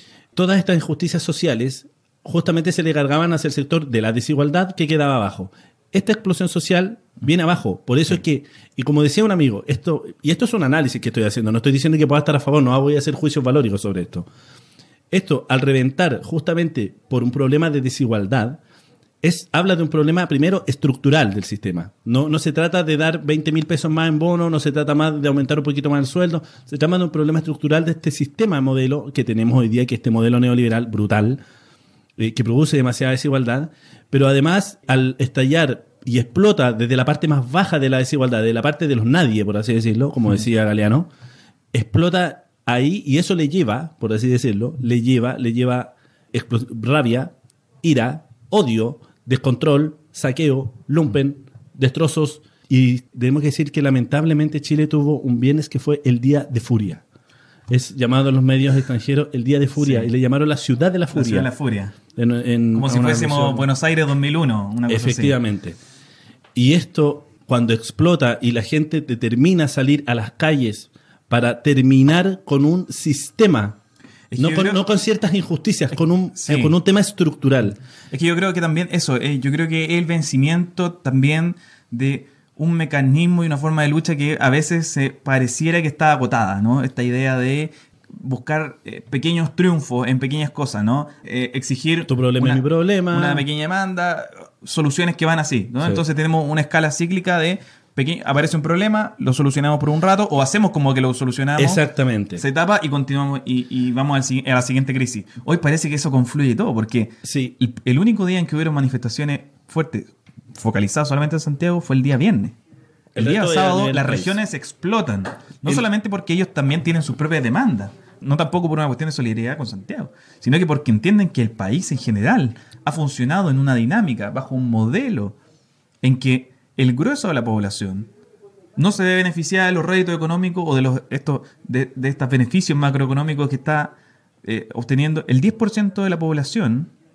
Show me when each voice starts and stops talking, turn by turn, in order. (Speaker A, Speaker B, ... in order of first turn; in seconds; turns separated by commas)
Speaker A: 0.3-14.3, Speaker A: 15.1-18.6, Speaker A: 19.2-31.4, Speaker A: 32.2-41.1, Speaker A: 41.7-57.0, Speaker A: 57.7-61.5, Speaker B: 59.8-60.1, Speaker B: 61.1-62.0, Speaker A: 62.1-63.6, Speaker B: 62.7-65.4, Speaker A: 64.9-65.8, Speaker A: 66.5-73.8, Speaker B: 74.3-74.8, Speaker A: 74.3-77.8, Speaker B: 76.4-76.7, Speaker B: 78.1-101.8, Speaker A: 92.1-93.4, Speaker A: 101.6-102.4, Speaker B: 102.4-112.6, Speaker A: 107.2-107.5, Speaker A: 113.1-114.4, Speaker B: 113.2-125.3, Speaker B: 126.0-128.1, Speaker B: 128.8-136.9